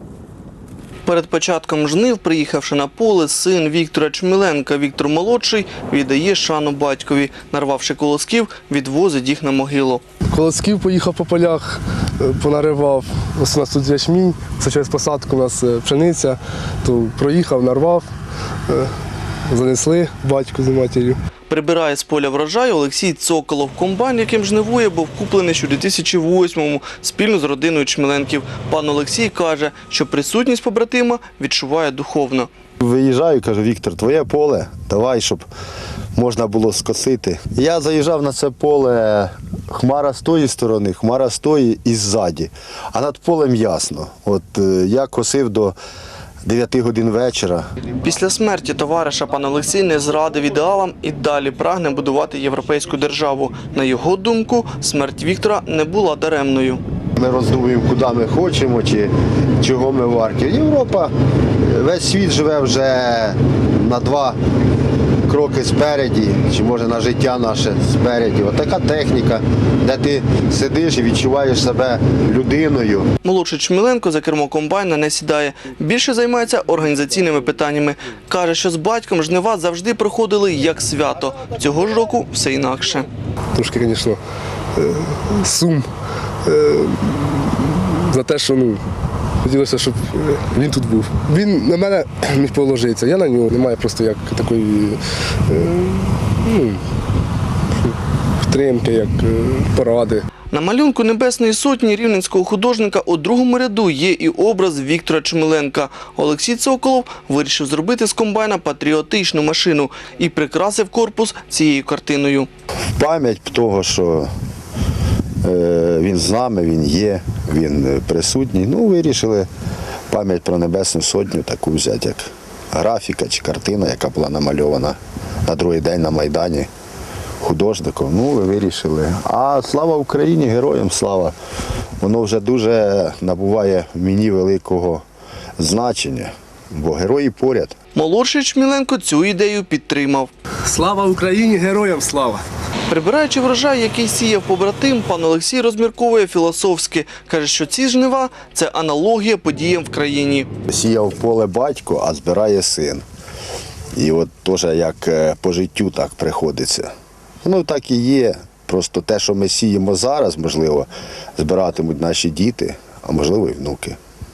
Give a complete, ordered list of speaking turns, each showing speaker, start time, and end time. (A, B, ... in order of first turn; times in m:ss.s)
0:01.0-0:10.0 A
0:10.3-0:18.1 B
0:18.7-0:18.9 B
0:19.5-0:21.2 B
0:21.5-0:32.5 A
0:32.8-0:35.4 C
0:36.1-0:45.8 C
0:46.4-0:47.6 C
0:48.0-0:56.8 A
0:57.2-1:04.4 C
1:05.2-1:13.1 C
1:13.2-1:23.1 A
1:23.5-1:24.2 B
1:24.7-1:25.9 B
1:26.4-1:28.8 B
1:29.4-1:36.8 B
1:37.8-1:40.2 B
1:40.5-1:52.5 A
1:53.0-1:54.3 C
1:55.4-1:59.5 C
2:00.1-2:06.7 C
2:07.4-2:11.3 C
2:12.0-2:15.0 C
2:15.6-2:17.8 C
2:17.9-2:20.3 A
2:20.6-2:22.4 B
2:22.9-2:30.5 A
2:30.7-2:33.0 C
2:33.9-2:36.9 C
2:37.4-2:44.0 C